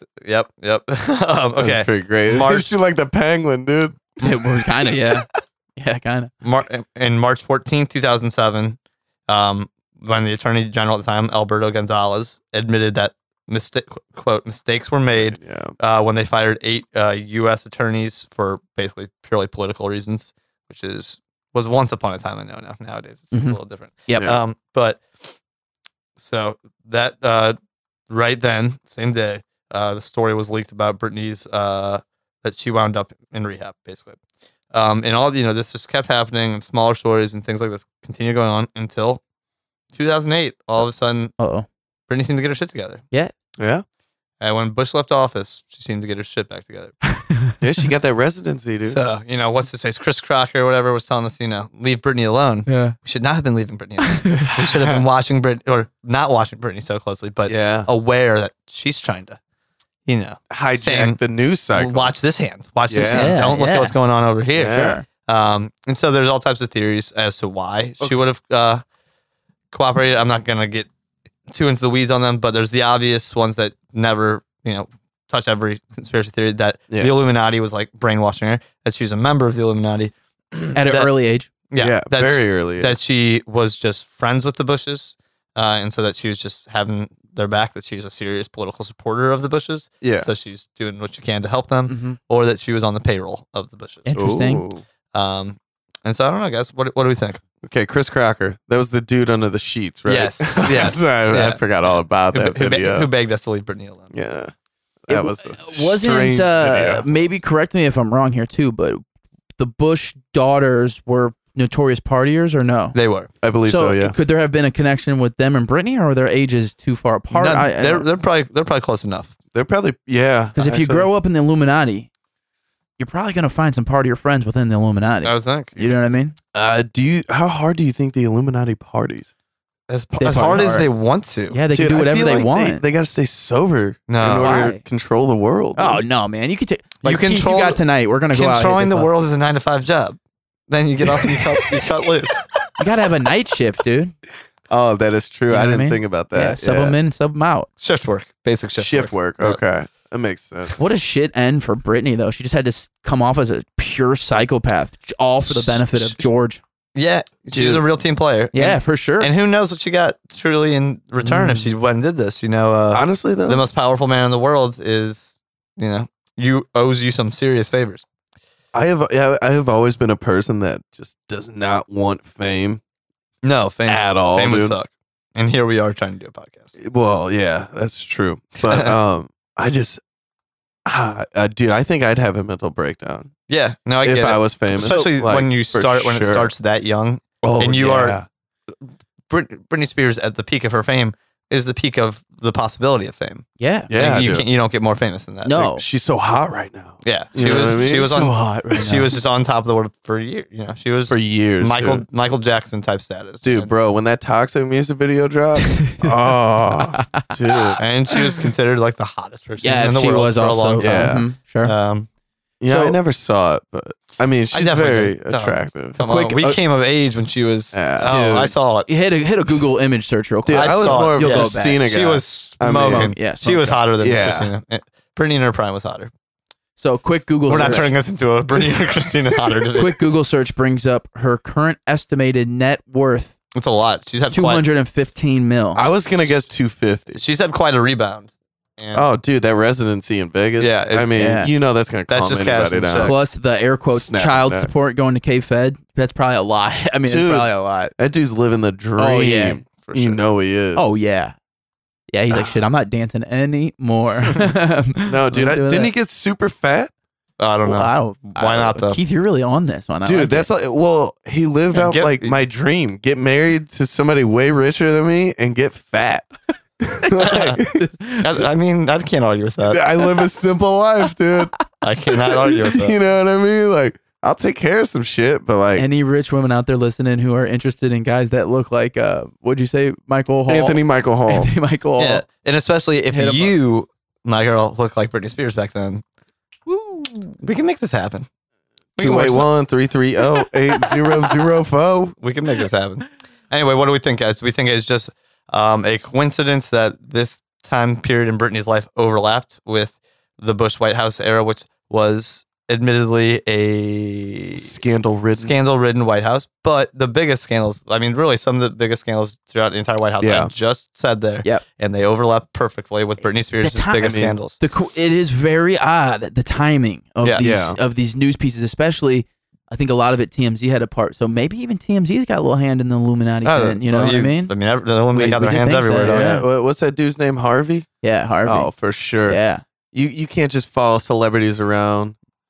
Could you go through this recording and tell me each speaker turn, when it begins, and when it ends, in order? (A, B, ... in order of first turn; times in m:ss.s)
0:00.2-0:02.8 A
0:01.6-0:05.0 B
0:04.2-0:06.3 C
0:06.4-0:25.4 A
0:15.1-0:15.8 B
0:23.3-0:24.3 C
0:26.2-0:27.6 A
0:28.1-0:34.2 A
0:34.7-0:39.2 A
0:39.9-0:41.3 A
0:41.4-0:41.7 C
0:42.1-0:43.0 A
0:43.6-0:43.8 B
0:44.4-0:46.9 A
0:47.1-0:47.5 C
0:47.6-0:49.0 B
0:48.9-0:59.4 A
0:52.7-0:53.0 C
0:54.1-0:54.4 C
0:57.5-0:57.9 B
1:00.1-1:01.2 A
1:00.5-1:02.2 B
1:01.7-1:08.8 A
1:02.9-1:03.4 B
1:03.0-1:04.0 C
1:04.6-1:05.0 B
1:04.7-1:05.0 C
1:09.7-1:10.9 A
1:11.5-1:21.1 A
1:20.8-1:21.5 C
1:21.7-1:34.2 A
1:21.8-1:23.0 B
1:30.0-1:30.3 B
1:31.9-1:32.2 C
1:34.0-1:34.6 C
1:34.2-1:34.8 B
1:35.1-1:37.4 A
1:37.6-1:43.1 B
1:40.1-1:41.6 A
1:42.3-1:44.1 A
1:44.1-1:44.5 B
1:45.1-1:47.1 B
1:45.1-1:49.0 C
1:49.6-1:53.0 C
1:52.9-1:53.3 A
1:53.4-1:54.2 B
1:53.7-1:58.1 C
1:57.3-1:59.3 A
1:59.5-2:01.1 B
2:00.6-2:02.1 C
2:03.0-2:06.4 C
2:05.2-2:05.9 A
2:06.5-2:09.3 B
2:09.9-2:11.6 A
2:10.2-2:10.9 C
2:11.5-2:12.8 C
2:11.7-2:16.0 B
2:14.1-2:14.7 A
2:14.2-2:14.8 C
2:15.8-2:19.1 C
2:17.0-2:20.2 A
2:20.7-2:22.5 A
2:22.8-2:24.1 C
2:24.7-2:27.0 B
2:25.5-2:27.7 C
2:27.8-2:29.6 A
2:28.8-2:30.8 B
2:30.8-2:36.6 C
2:35.4-2:36.2 A
2:37.0-2:48.0 A
2:37.5-2:37.8 B
2:38.5-2:39.3 C
2:41.2-2:41.7 B
2:42.9-2:43.6 B
2:48.7-2:52.8 B
2:53.4-2:56.7 A
2:53.9-2:54.8 B
2:56.8-3:00.0 B
2:58.6-2:58.9 A
3:00.9-3:03.3 B
3:03.5-3:08.2 A
3:04.0-3:06.5 B
3:07.4-3:08.3 B
3:09.3-3:15.6 A
3:13.6-3:13.9 C
3:13.9-3:14.5 B
3:15.4-3:15.8 C
3:15.6-3:18.3 B
3:17.0-3:23.7 A
3:18.0-3:19.1 C
3:21.1-3:22.0 B
3:23.4-3:27.8 B
3:25.7-3:27.6 C
3:27.8-3:32.1 A
3:29.6-3:31.7 C
3:30.8-3:31.3 B
3:32.6-3:36.0 B
3:32.7-3:33.0 C
3:34.5-3:38.9 A
3:36.0-3:36.6 C
3:37.7-3:38.1 B
3:38.1-3:41.9 C
3:40.5-3:43.1 B
3:40.5-3:46.1 A
3:42.7-3:43.8 C
3:44.0-3:44.5 B
3:46.8-3:47.9 C
3:47.5-3:47.9 B
3:47.5-3:50.0 A
3:49.8-3:53.3 C
3:53.5-3:54.6 A
3:54.3-3:55.9 C
3:55.8-3:57.2 B
3:57.1-3:59.0 A
3:58.9-4:03.2 B
4:00.6-4:01.2 A
4:01.2-4:01.5 C
4:02.1-4:03.1 A
4:03.0-4:07.9 C
4:03.9-4:04.8 B
4:07.1-4:10.9 B
4:09.0-4:09.6 C
4:09.8-4:10.2 A
4:10.8-4:11.4 C
4:12.1-4:15.9 C
4:12.3-4:12.6 B
4:15.1-4:16.9 B
4:17.4-4:19.0 A
4:17.6-4:20.5 C
4:20.0-4:26.3 B
4:21.7-4:22.3 A
4:26.8-4:27.8 B
4:27.1-4:27.6 A
4:27.7-4:28.4 C
4:28.2-4:29.8 A
4:29.7-4:31.6 B
4:31.8-4:33.0 A
4:32.7-4:35.9 B
4:35.8-4:42.2 C
4:40.5-4:41.5 B
4:42.0-4:46.0 A
4:43.1-4:43.5 C
4:46.7-4:48.3 A
4:49.0-4:49.5 A
4:49.0-4:52.2 B
4:52.2-5:04.8 A
5:04.5-5:05.6 B
5:05.4-5:14.6 A
5:10.2-5:10.5 B
5:13.6-5:24.5 C
5:14.0-5:14.4 B
5:17.4-5:17.8 B
5:23.4-5:26.4 A
5:23.9-5:24.2 B
5:25.1-5:26.5 C
5:26.0-5:27.9 B
5:28.0-5:28.7 C
5:28.4-5:29.4 B
5:29.3-5:29.6 C
5:29.9-5:32.2 B